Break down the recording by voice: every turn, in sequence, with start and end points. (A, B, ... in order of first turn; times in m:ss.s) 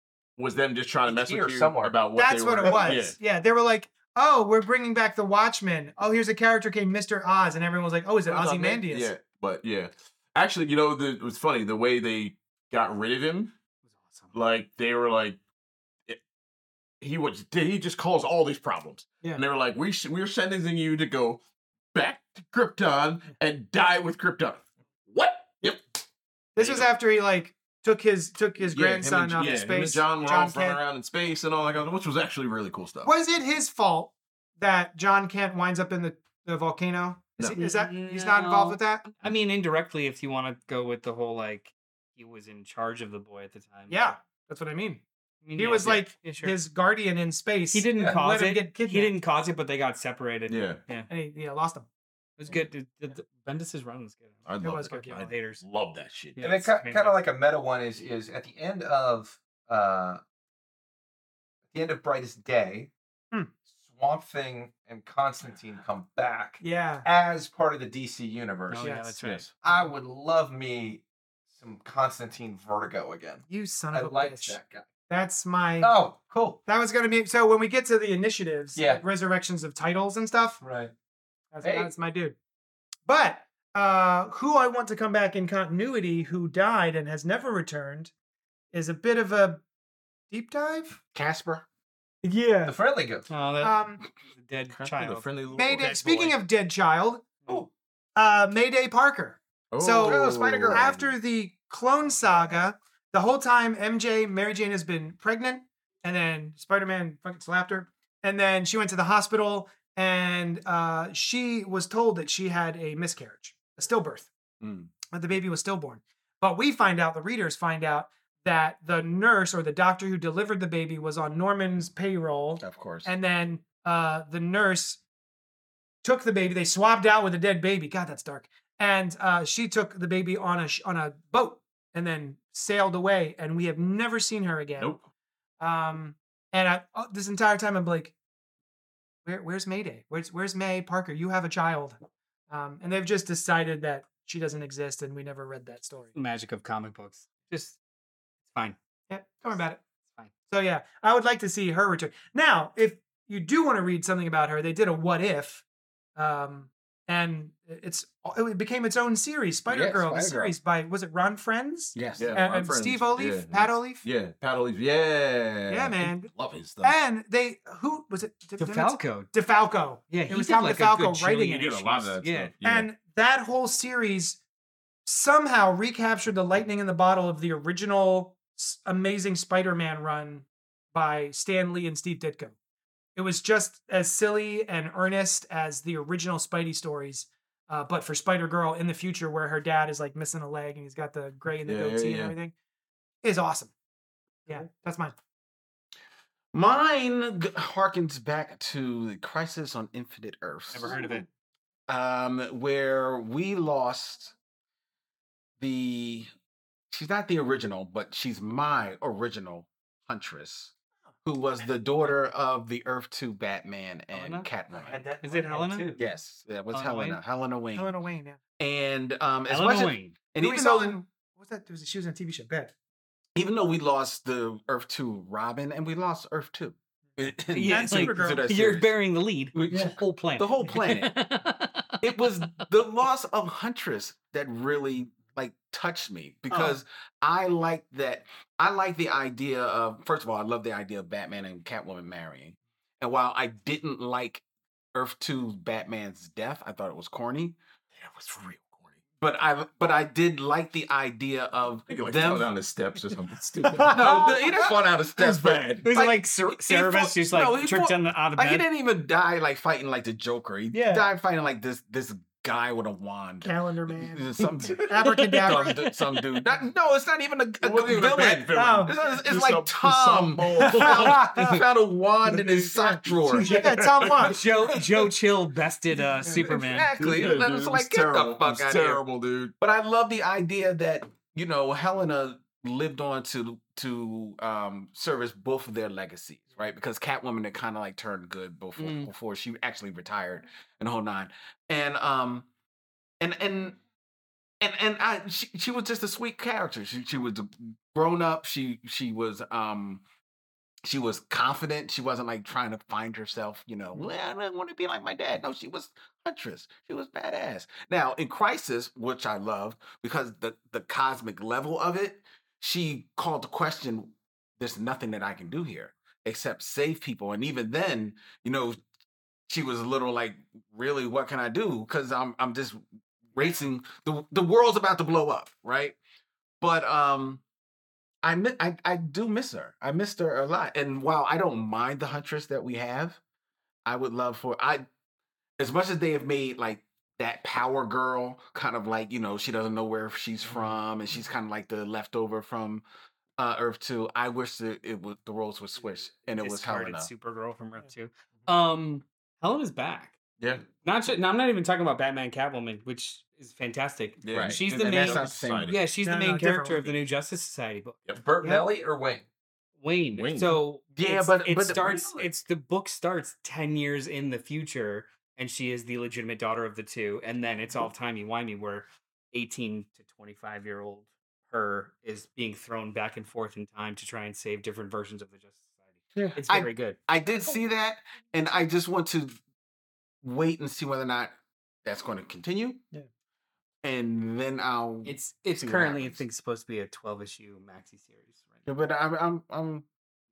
0:00.4-0:03.2 A
0:01.0-0:02.1 B
0:02.1-0:09.1 C
0:02.6-0:03.0 B
0:08.2-0:13.5 A
0:13.9-0:14.3 D
0:14.3-0:15.4 A
0:17.0-0:21.4 A
0:21.9-0:25.8 A
0:26.6-0:30.8 C
0:26.6-0:26.9 A
0:28.6-0:33.1 A
0:33.0-0:39.0 C
0:37.5-0:44.0 D
0:43.9-0:45.0 C
0:45.4-0:46.6 D
0:45.6-0:49.1 C
0:47.7-0:51.1 D
0:50.5-0:50.8 A
0:51.1-0:51.9 C
0:52.4-0:55.6 D
0:54.4-0:56.4 A
0:54.6-0:55.2 C
0:56.4-0:57.2 D
0:56.4-1:00.2 B
1:01.7-1:02.9 B
1:03.7-1:08.9 B
1:06.6-1:07.0 C
1:08.7-1:09.5 D
1:08.8-1:09.1 C
1:09.2-1:09.5 A
1:09.6-1:14.9 B
1:13.5-1:15.9 C
1:15.8-1:16.6 B
1:16.6-1:20.6 C
1:18.7-1:19.0 B
1:20.6-1:20.9 B
1:21.5-1:22.3 C
1:21.6-1:21.9 B
1:23.1-1:28.1 C
1:28.7-1:29.6 C
1:30.3-1:31.0 C
1:31.1-1:31.6 E
1:32.2-1:32.8 C
1:32.6-1:33.3 B
1:33.3-1:36.4 D
1:33.6-1:34.0 C
1:34.8-1:36.1 A
1:35.5-1:37.4 C
1:38.2-1:54.3 C
1:39.7-1:41.1 A
1:40.0-1:41.0 E
1:54.6-1:54.9 E
1:55.1-2:05.0 C
2:02.6-2:03.1 E
2:06.0-2:14.9 C
2:14.8-2:15.0 A
2:15.6-2:18.1 C
2:19.2-2:26.1 C
2:26.1-2:27.8 D
2:29.1-2:29.8 C
2:30.5-2:35.6 C
2:36.2-2:44.0 C
2:39.7-2:40.6 E
2:41.9-2:42.4 E
2:42.2-2:47.0 A
2:45.7-2:46.3 C
2:46.8-2:51.7 C
2:48.6-2:49.3 D
2:50.1-2:52.5 D
2:51.5-2:52.9 A
2:52.6-2:54.4 C
2:55.0-3:02.5 C
3:03.2-3:12.5 C
3:11.6-3:12.3 A
3:13.2-3:13.7 C
3:14.4-3:15.1 C
3:16.5-3:21.0 E
3:20.7-3:21.2 D
3:21.9-3:24.3 E
3:25.6-3:26.3 E
3:26.9-3:30.7 E
3:31.2-3:35.0 E
3:34.1-3:34.5 D
3:34.8-3:36.0 C
3:34.9-3:35.2 B
3:35.2-3:35.9 D
3:35.9-3:37.9 E
3:36.7-3:37.2 D
3:37.7-3:38.4 C
3:38.6-3:41.0 E
3:39.5-3:40.1 D
3:40.4-3:42.7 C
3:43.3-3:48.9 E
3:47.5-3:52.6 D
3:47.6-3:48.5 C
3:49.5-3:51.2 E
3:52.0-4:07.6 E
3:56.5-3:56.8 C
4:07.9-4:09.0 A
4:09.2-4:12.5 E
4:11.9-4:15.9 A
4:13.8-4:14.3 C
4:13.8-4:33.6 E
4:15.8-4:18.6 D
4:20.7-4:21.1 C
4:23.4-4:24.3 C
4:24.6-4:25.0 A
4:24.9-4:25.8 C
4:25.3-4:25.8 D
4:27.6-4:31.4 A
4:28.5-4:28.9 C
4:30.6-4:31.5 C
4:32.7-4:34.4 C
4:33.2-4:34.3 A
4:34.2-4:36.9 D
4:36.2-4:39.0 E
4:36.9-4:39.5 A
4:39.6-4:52.5 E
4:48.8-4:49.1 D
4:53.2-4:53.8 E
4:54.6-5:00.0 E
5:00.8-5:18.8 E
5:19.5-5:22.8 E
5:23.3-5:26.0 E
5:26.6-5:27.4 E
5:28.2-5:33.2 E
5:33.8-5:34.8 E
5:35.6-5:42.8 E
5:43.4-5:47.1 E
5:46.4-5:50.1 D
5:50.4-5:50.6 A
5:50.8-5:58.0 D
5:54.2-5:55.8 E
5:54.2-5:55.8 A
5:56.0-5:56.9 C
5:58.2-5:59.2 B
5:58.4-5:58.7 C
5:59.8-6:15.8 D
6:00.1-6:00.6 A
6:00.9-6:02.3 E
6:16.3-6:17.0 D
6:16.5-6:19.4 E
6:20.2-6:22.8 E
6:23.8-6:26.2 E
6:25.0-6:28.6 D
6:28.6-6:29.8 E